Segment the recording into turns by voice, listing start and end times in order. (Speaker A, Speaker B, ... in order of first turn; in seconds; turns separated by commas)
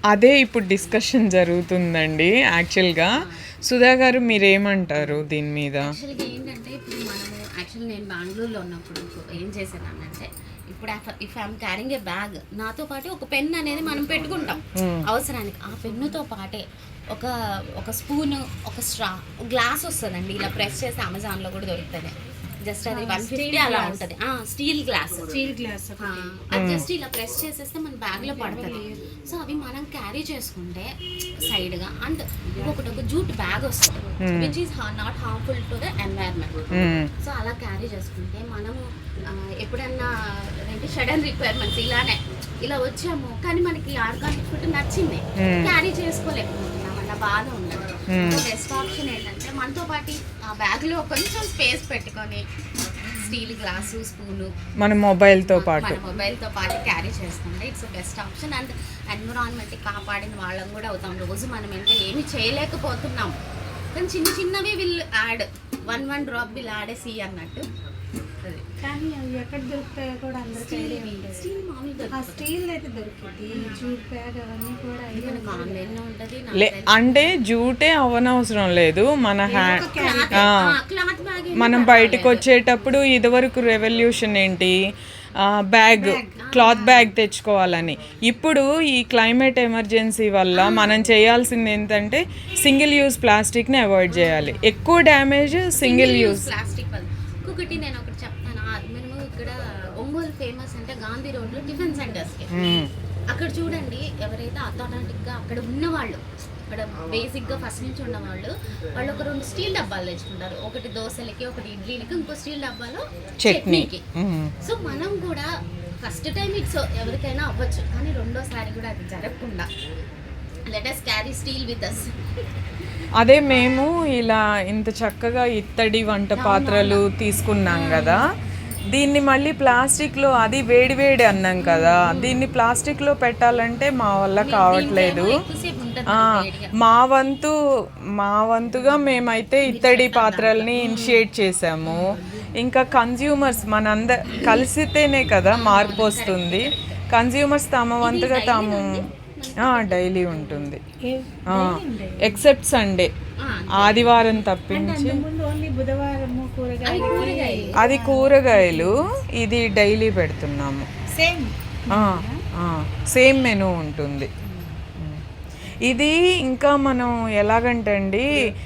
Speaker A: 0.1-3.1, Speaker B: 3.2-3.4, Speaker A: 3.7-5.9, Speaker B: 5.0-5.2, Speaker B: 5.8-25.3, Speaker A: 14.8-15.1, Speaker C: 22.9-24.1, Speaker C: 25.3-26.4, Speaker B: 26.0-40.1, Speaker A: 26.5-26.9, Speaker C: 28.2-28.9, Speaker C: 32.6-33.0, Speaker A: 34.2-34.5, Speaker A: 36.7-37.1, Speaker B: 40.6-52.5, Speaker A: 45.4-45.8, Speaker A: 48.1-48.5, Speaker B: 53.1-54.5, Speaker A: 54.8-56.0, Speaker B: 55.3-63.4, Speaker B: 63.9-67.7, Speaker C: 68.8-71.5, Speaker B: 70.5-72.5, Speaker C: 72.1-75.8, Speaker B: 75.1-77.4, Speaker A: 76.5-79.8, Speaker C: 79.5-80.5, Speaker B: 79.9-82.4, Speaker A: 80.4-80.6, Speaker A: 81.5-84.8, Speaker A: 85.4-96.5, Speaker C: 86.0-86.4, Speaker B: 86.4-87.1, Speaker B: 90.5-90.9, Speaker B: 94.1-94.8, Speaker B: 95.8-114.0, Speaker A: 102.5-102.9, Speaker A: 113.4-114.5, Speaker B: 114.6-115.5, Speaker B: 116.0-119.7, Speaker B: 120.7-122.1, Speaker A: 123.2-128.2, Speaker B: 126.4-127.1, Speaker B: 127.7-128.3, Speaker A: 128.9-135.4, Speaker B: 131.6-132.5, Speaker B: 134.4-136.8, Speaker A: 136.1-137.6, Speaker A: 138.2-149.0, Speaker B: 139.6-141.3, Speaker B: 141.8-142.5, Speaker B: 144.3-144.6, Speaker B: 145.5-147.1, Speaker B: 148.0-150.8, Speaker A: 149.6-150.8, Speaker C: 151.1-152.4, Speaker A: 151.5-153.1, Speaker B: 153.4-154.4, Speaker A: 153.8-155.2, Speaker C: 154.7-159.1, Speaker B: 156.8-157.8, Speaker A: 157.8-160.9, Speaker C: 161.1-162.4, Speaker A: 161.9-164.3, Speaker A: 165.9-168.3